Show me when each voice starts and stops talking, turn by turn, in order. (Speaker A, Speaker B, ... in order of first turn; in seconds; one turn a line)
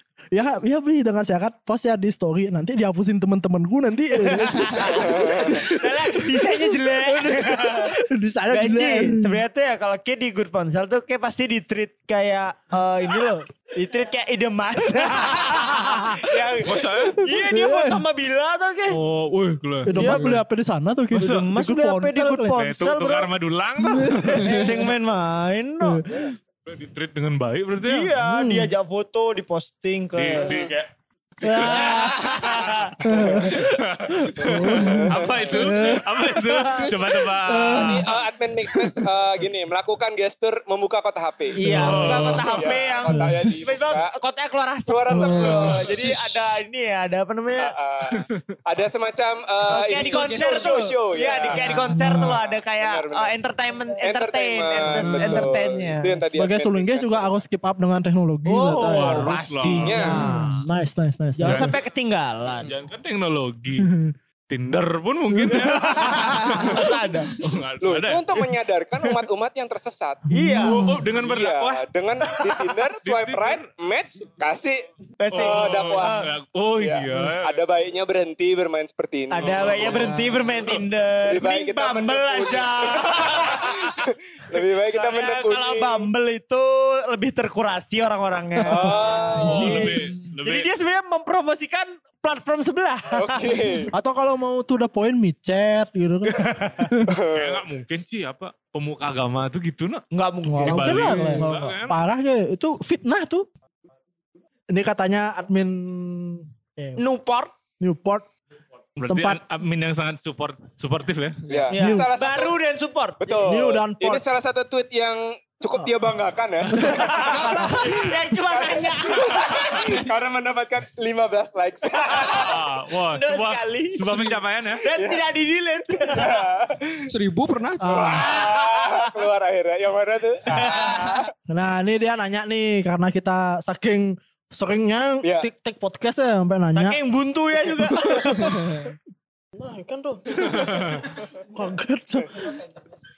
Speaker A: 0.3-9.4
Speaker B: 4.3-7.9
Speaker C: 5.1-5.6
Speaker B: 8.5-19.0
Speaker A: 15.2-16.1
Speaker D: 16.6-17.2
Speaker A: 17.3-18.0
Speaker D: 18.9-20.3
Speaker A: 19.9-22.6
Speaker B: 19.9-20.3
Speaker D: 21.1-21.4
Speaker B: 21.2-23.3
Speaker D: 22.5-24.6
Speaker A: 23.8-24.8
Speaker B: 24.4-26.0
Speaker A: 25.8-26.2
Speaker D: 26.6-28.1
Speaker B: 27.8-30.5
Speaker A: 28.2-28.7
Speaker D: 30.1-38.0
Speaker C: 30.4-30.7
Speaker A: 31.4-32.2
Speaker B: 31.6-33.3
Speaker A: 33.0-36.8
Speaker C: 34.8-35.6
Speaker E: 36.8-37.2
Speaker A: 37.4-38.1
Speaker C: 37.6-44.1
Speaker B: 41.6-47.7
Speaker A: 41.6-42.4
Speaker D: 41.7-42.6
Speaker A: 43.1-43.6
Speaker C: 44.9-46.0
Speaker A: 45.1-45.8
Speaker C: 47.6-53.3
Speaker B: 49.7-56.1
Speaker E: 50.0-50.9
Speaker E: 51.5-52.0
Speaker A: 51.9-52.3
Speaker C: 54.0-57.4
Speaker E: 55.0-55.5
Speaker A: 56.3-59.3
Speaker B: 58.5-60.6
Speaker D: 58.7-60.1
Speaker C: 59.8-60.2
Speaker A: 60.0-61.7
Speaker B: 61.4-62.7
Speaker D: 61.5-61.8
Speaker D: 62.6-63.9
Speaker A: 63.8-64.1
Speaker D: 64.5-68.3
Speaker A: 65.3-65.7
Speaker B: 65.5-67.3
Speaker C: 67.8-70.2
Speaker B: 70.3-70.9
Speaker A: 70.3-71.1
Speaker D: 70.6-71.8
Speaker C: 71.2-76.2
Speaker D: 73.0-73.7
Speaker B: 75.2-76.2
Speaker D: 75.3-77.7
Speaker C: 76.8-80.0
Speaker B: 79.3-83.9
Speaker D: 79.4-80.8
Speaker C: 81.3-86.1
Speaker B: 84.9-93.8
Speaker C: 88.7-89.8
Speaker A: 88.7-89.8
Speaker D: 89.3-90.7
Speaker C: 93.1-93.9
Speaker A: 93.9-97.1
Speaker B: 96.4-96.9
Speaker C: 97.1-97.6
Speaker D: 97.3-100.0
Speaker B: 100.1-101.4
Speaker A: 100.5-103.5
Speaker D: 100.6-102.0
Speaker E: 100.7-101.4
Speaker A: 104.7-107.0
Speaker B: 107.0-107.5
Speaker A: 107.8-108.3
Speaker D: 109.0-111.5
Speaker A: 109.0-109.4
Speaker C: 111.5-112.5
Speaker B: 111.7-113.4
Speaker A: 111.7-112.1
Speaker C: 113.2-117.4
Speaker A: 113.4-114.2
Speaker A: 116.7-117.9
Speaker B: 117.0-119.8
Speaker E: 117.3-117.8
Speaker C: 118.5-122.4
Speaker D: 119.3-119.8
Speaker B: 121.9-122.6
Speaker D: 122.2-124.8
Speaker B: 123.1-124.0
Speaker B: 124.8-126.4
Speaker C: 124.9-125.2
Speaker C: 126.1-127.0
Speaker E: 127.1-128.2
Speaker A: 127.8-128.3
Speaker B: 128.0-129.1
Speaker C: 128.0-131.0
Speaker B: 130.5-131.1
Speaker E: 130.7-131.3
Speaker A: 131.5-137.0
Speaker C: 135.2-135.5
Speaker B: 136.7-138.7
Speaker A: 137.8-138.9
Speaker A: 139.6-142.6
Speaker D: 140.5-141.0